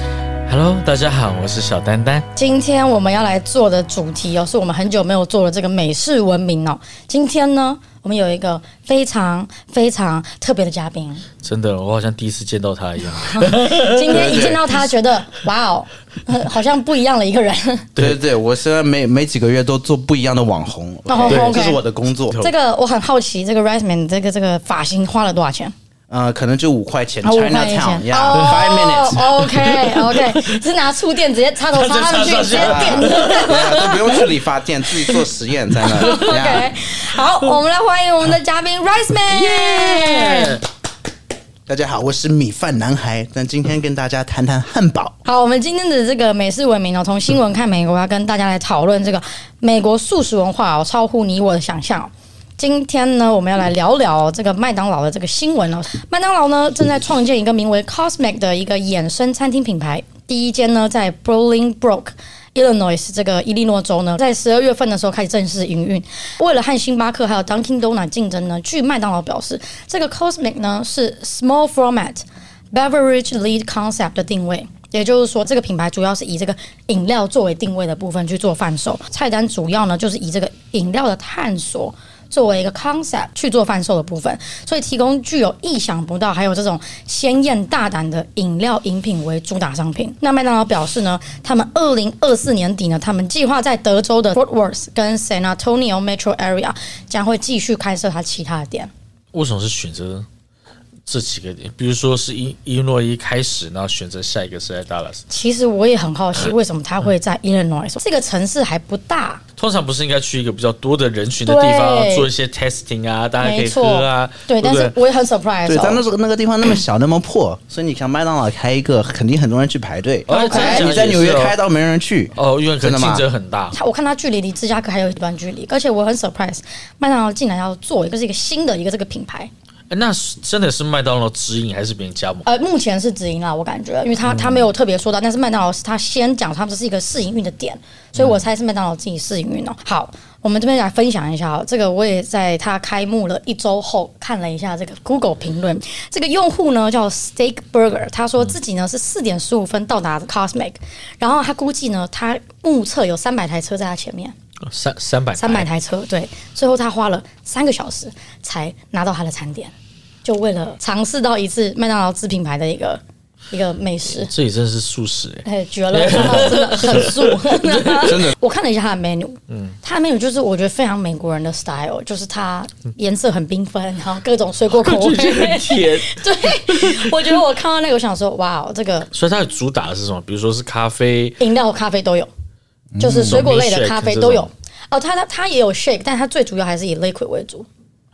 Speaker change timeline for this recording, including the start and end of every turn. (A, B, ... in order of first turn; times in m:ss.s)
0:00.5-0:02.3 A
0:02.4-0:11.2 B
0:11.4-0:14.5 A
0:13.1-0:17.9 B
0:14.1-0:14.7 C
0:17.9-0:18.2 A
0:18.0-0:22.4 C
0:21.1-0:21.8 B
0:21.1-0:21.7 A
0:22.4-0:25.7 B
0:26.1-0:29.3 C
0:27.2-0:33.9 B
0:28.4-0:28.6 A
0:29.5-0:30.6 A
0:31.7-0:34.2 A
0:32.5-0:36.7 C
0:35.8-0:40.6 B
0:35.9-0:36.4 A
0:39.3-0:40.6 A
0:41.7-0:45.2 C
0:45.2-1:38.9 B
1:39.3-1:40.2 A
1:41.1-1:45.2 A
1:45.3-1:49.4 B
1:49.6-1:55.0 A
1:51.4-1:52.3 B
1:53.4-1:56.0 B
1:55.6-2:03.2 C
2:00.3-2:01.5 A
2:00.3-2:00.9 B
2:02.4-2:03.8 A
2:03.7-2:09.5 B
2:09.9-2:12.4 A
2:12.4-2:34.3 B
2:14.3-2:14.6 A
2:34.7-2:35.7 A
2:35.4-2:39.7 B
2:40.2-2:44.3 B
2:44.2-2:48.2 A
2:45.4-2:59.1 B
2:48.0-2:48.3 C
2:49.5-2:49.8 A
2:54.7-2:57.4 A
2:59.1-3:01.4 A
3:01.4-3:02.3 B
3:02.9-3:03.4 C
3:03.0-3:07.7 B
3:03.2-3:04.5 A